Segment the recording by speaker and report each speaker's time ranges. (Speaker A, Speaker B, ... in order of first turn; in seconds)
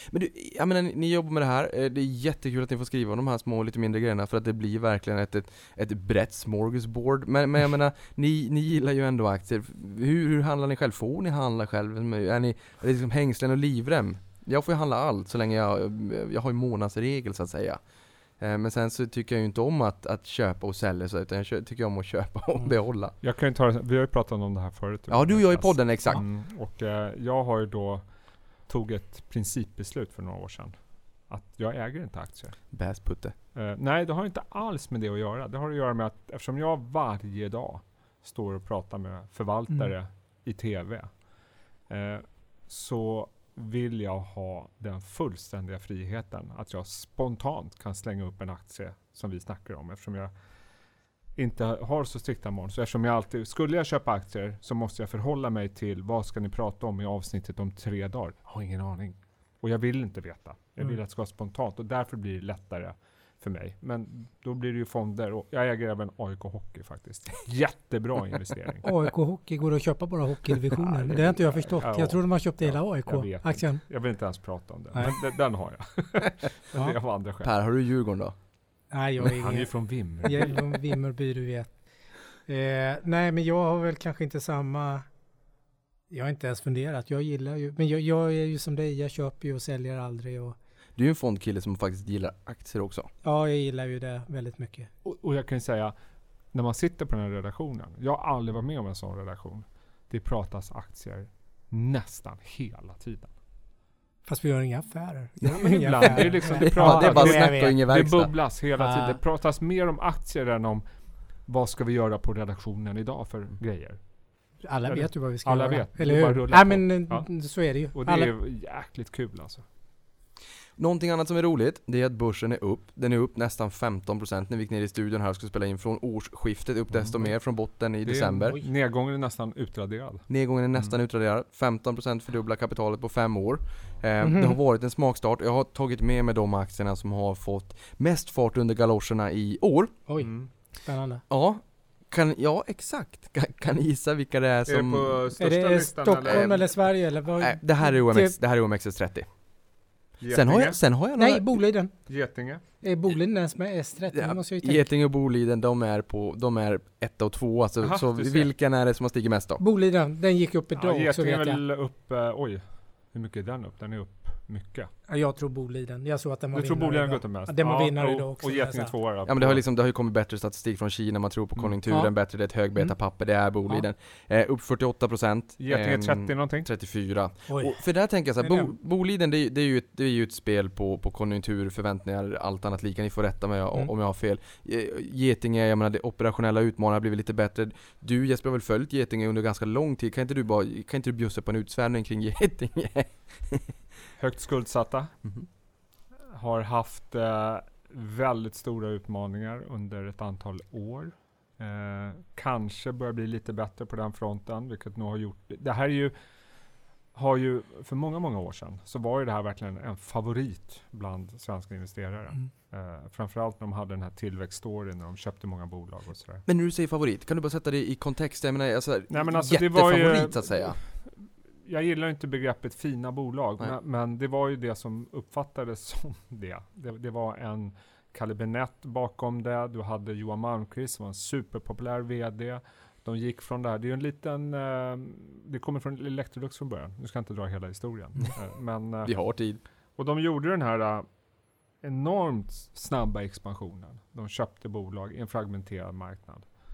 Speaker A: 0.1-17.8, 18.4-23.1, 25.1-26.2, 32.7-33.4, 77.4-78.3, 91.0-93.1, 105.4-108.4, 120.8-128.6, 130.3-140.0, 141.3-145.2, 146.2-146.5, 147.4-151.5, 154.1-159.6, 169.3-193.7, 216.5-220.8, 239.1-239.6
Speaker B: 23.2-32.7, 33.5-50.3, 51.4-68.9, 71.0-77.5, 79.3-80.6, 95.0-95.9, 96.5-103.3, 105.6-119.7, 126.9-130.9, 140.2-140.5, 144.7-146.9, 150.2-150.8, 152.1-152.6, 157.8-158.5, 160.8-164.9, 166.5-169.6, 175.6-176.7, 194.2-195.1, 196.3-206.2, 207.1-216.4, 219.1-239.3, 240.0-241.1, 241.8-246.5
Speaker C: 68.8-73.8, 78.9-81.7, 82.5-85.1, 86.1-90.6, 93.2-94.9, 104.2-107.8, 108.8-109.2, 114.6-118.3, 134.2-134.6, 140.1-141.2, 145.4-148.4, 151.2-152.1, 152.8-154.9, 159.6-161.6, 165.1-168.9, 177.5-178.7